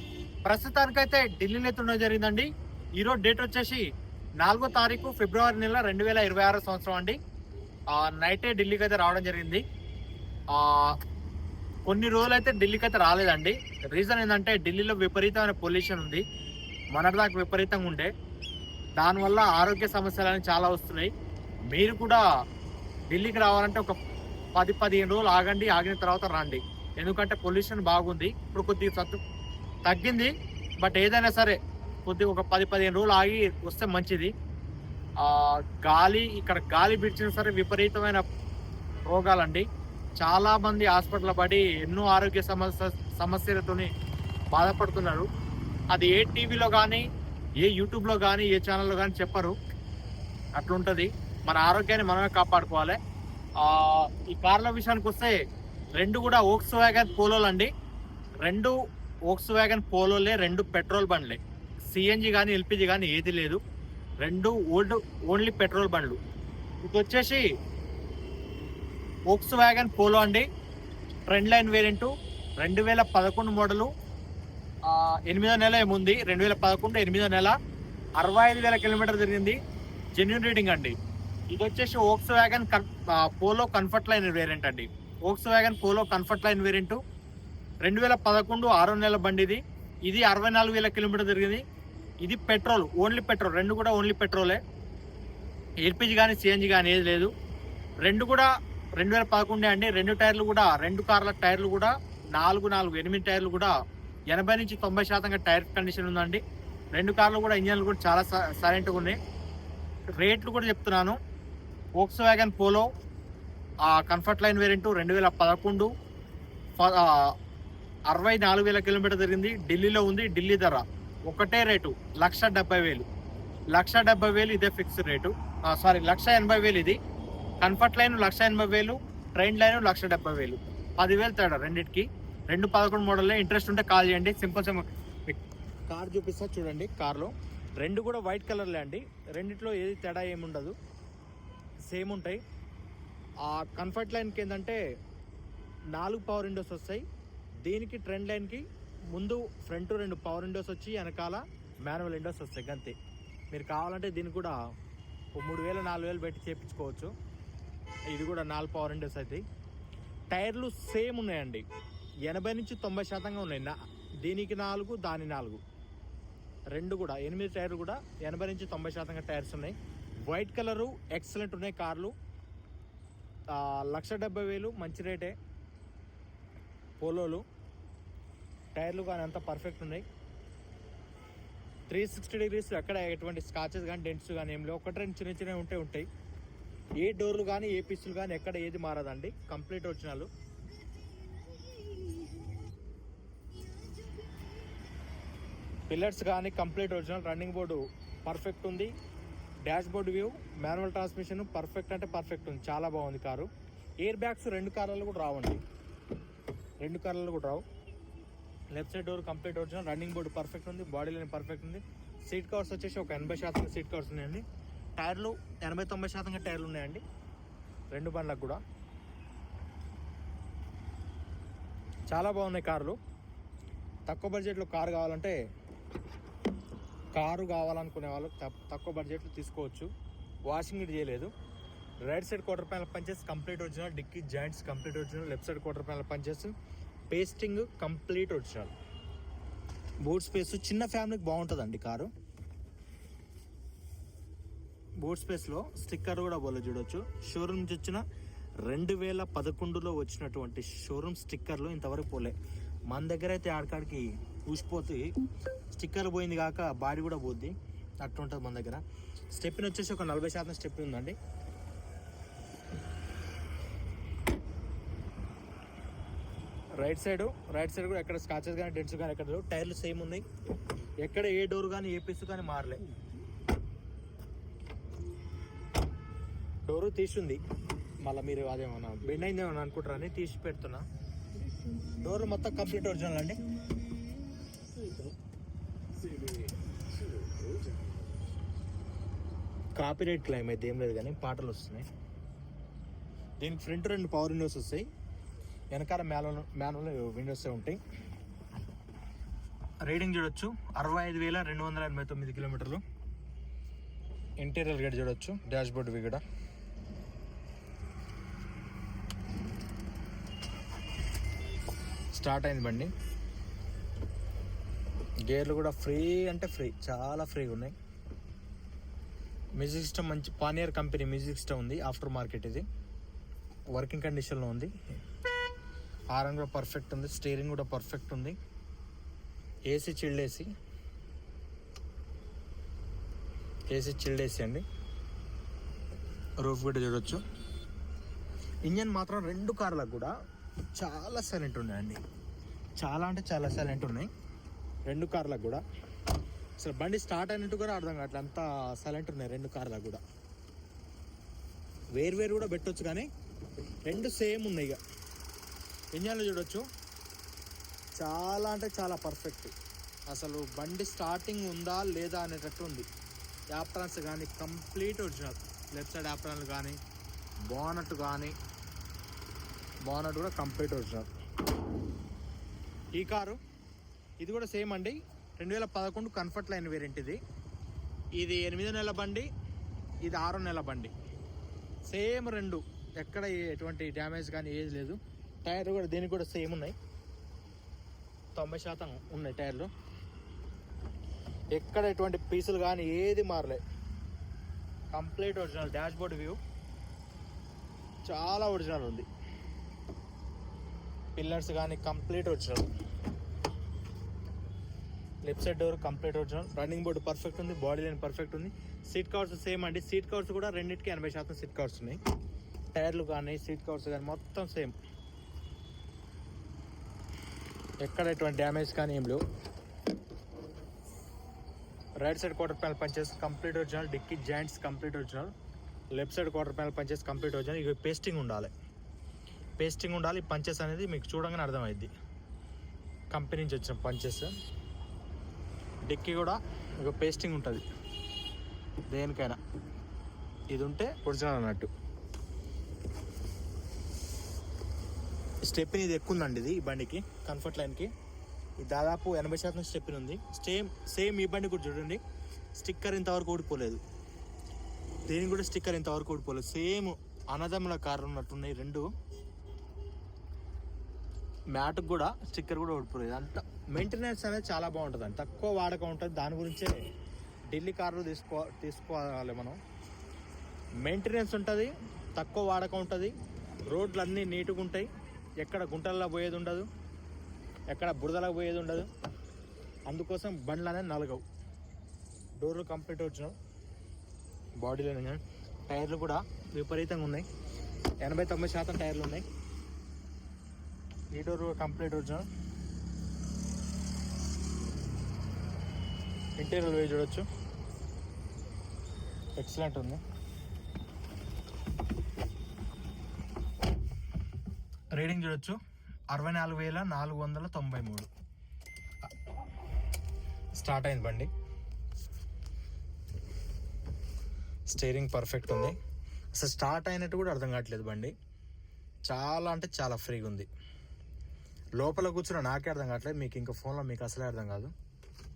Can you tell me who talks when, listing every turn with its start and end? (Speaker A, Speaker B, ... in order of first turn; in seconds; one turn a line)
Speaker A: 0.4-3.9
Speaker A: 4.4-7.2
Speaker A: 7.9-9.6
Speaker A: 10.5-11.0
Speaker A: 11.8-16.2
Speaker A: 16.9-18.1
Speaker A: 18.9-21.1
Speaker A: 21.7-22.2
Speaker A: 23.1-24.0
Speaker A: 24.5-29.2
Speaker A: 29.8-34.3
Speaker A: 35.2-38.2
Speaker A: 39.0-39.6
Speaker A: 40.2-43.9
Speaker A: 44.5-45.2
Speaker A: 45.9-47.0
Speaker A: 47.6-49.5
Speaker A: 50.5-53.0
Speaker A: 53.6-55.4
Speaker A: 56.0-57.7
Speaker A: 58.4-63.6
Speaker A: 64.2-66.2
Speaker A: 66.8-67.5
Speaker A: 69.3-70.5
Speaker A: 71.3-73.9
Speaker A: 74.8-77.6
Speaker A: 78.2-79.6
Speaker A: 80.1-80.9
Speaker A: 81.5-87.0
Speaker A: 87.8-91.6
Speaker A: 92.2-94.6
Speaker A: 95.8-97.3
Speaker A: 98.0-103.7
Speaker A: 104.3-106.4
Speaker A: 106.9-109.2
Speaker A: 110.1-111.2
Speaker A: 112.0-112.9
Speaker A: 113.8-115.9
Speaker A: 116.8-117.3
Speaker A: 118.1-123.0
Speaker A: 123.7-127.0
Speaker A: 127.6-140.7
Speaker A: 141.9-142.4
Speaker A: 143.4-144.8
Speaker A: 145.9-147.0
Speaker A: 147.6-152.9
Speaker A: 153.5-154.6
Speaker A: 155.3-157.1
Speaker A: 158.1-159.4
Speaker A: 160.3-161.6
Speaker A: 162.2-165.6
Speaker A: 166.7-169.7
Speaker A: 170.2-172.1
Speaker A: 173.5-175.3
Speaker A: 177.0-177.4
Speaker A: 178.7-180.0
Speaker A: 181.9-186.1
Speaker A: 187.0-190.3
Speaker A: 195.9-198.9
Speaker A: 199.6-203.5
Speaker A: 204.0-205.6
Speaker A: 206.8-207.6
Speaker A: 208.7-214.4
Speaker A: 215.0-217.0
Speaker A: 217.9-218.6
Speaker A: 222.1-223.0
Speaker A: 224.1-225.4
Speaker A: 227.1-229.9
Speaker A: 230.4-231.3
Speaker A: 232.0-236.5
Speaker A: 237.1-238.7
Speaker A: 240.0-242.1
Speaker A: 245.0-248.0
Speaker A: 248.6-252.3
Speaker A: 252.9-255.2
Speaker A: 255.7-261.2
Speaker A: 266.8-270.2
Speaker A: 271.0-272.8
Speaker A: 276.7-277.4
Speaker A: 278.0-280.8
Speaker A: 282.0-283.4
Speaker A: 289.8-291.9
Speaker A: 293.4-294.9
Speaker A: 295.7-297.8
Speaker A: 299.8-302.8
Speaker A: 304.4-306.2
Speaker A: 312.1-312.9
Speaker A: 315.3-317.7
Speaker A: 319.6-322.6
Speaker A: 323.7-324.7
Speaker A: 326.1-328.4
Speaker A: 329.7-330.5
Speaker A: 333.7-334.6
Speaker A: 336.4-337.2
Speaker A: 338.6-340.1
Speaker A: 340.7-342.0
Speaker A: 342.8-344.1
Speaker A: 344.9-345.6
Speaker A: 346.6-350.0
Speaker A: 351.9-353.1
Speaker A: 353.8-354.8
Speaker A: 355.9-356.6
Speaker A: 358.0-359.5
Speaker A: 360.1-362.9
Speaker A: 363.5-366.8
Speaker A: 367.5-368.3
Speaker A: 369.9-371.1
Speaker A: 372.9-373.4
Speaker A: 374.2-377.2
Speaker A: 378.2-379.3
Speaker A: 380.0-380.9
Speaker A: 381.9-386.8
Speaker A: 388.3-389.7
Speaker A: 391.5-393.6
Speaker A: 394.9-396.4
Speaker A: 398.0-399.1
Speaker A: 401.1-402.7
Speaker A: 405.2-412.0
Speaker A: 412.7-414.7
Speaker A: 417.8-419.2
Speaker A: 422.0-425.3
Speaker A: 425.9-428.5
Speaker A: 429.6-431.9
Speaker A: 433.1-434.3
Speaker A: 435.9-437.6
Speaker A: 438.9-439.4
Speaker A: 440.5-441.7
Speaker A: 445.4-447.9
Speaker A: 448.6-452.0
Speaker A: 452.6-453.8
Speaker A: 455.1-458.9
Speaker A: 461.5-466.8
Speaker A: 467.5-469.6
Speaker A: 470.8-473.1
Speaker A: 473.7-474.9
Speaker A: 475.4-476.7
Speaker A: 477.7-478.9
Speaker A: 479.9-481.2
Speaker A: 482.4-483.3
Speaker A: 484.6-487.2
Speaker A: 488.0-489.2
Speaker A: 491.1-492.3
Speaker A: 496.4-497.2
Speaker A: 499.4-500.0
Speaker A: 504.9-505.6
Speaker A: 506.1-508.1
Speaker A: 510.6-511.3
Speaker A: 514.7-515.7
Speaker A: 516.3-518.1
Speaker A: 519.0-520.5
Speaker A: 521.8-524.7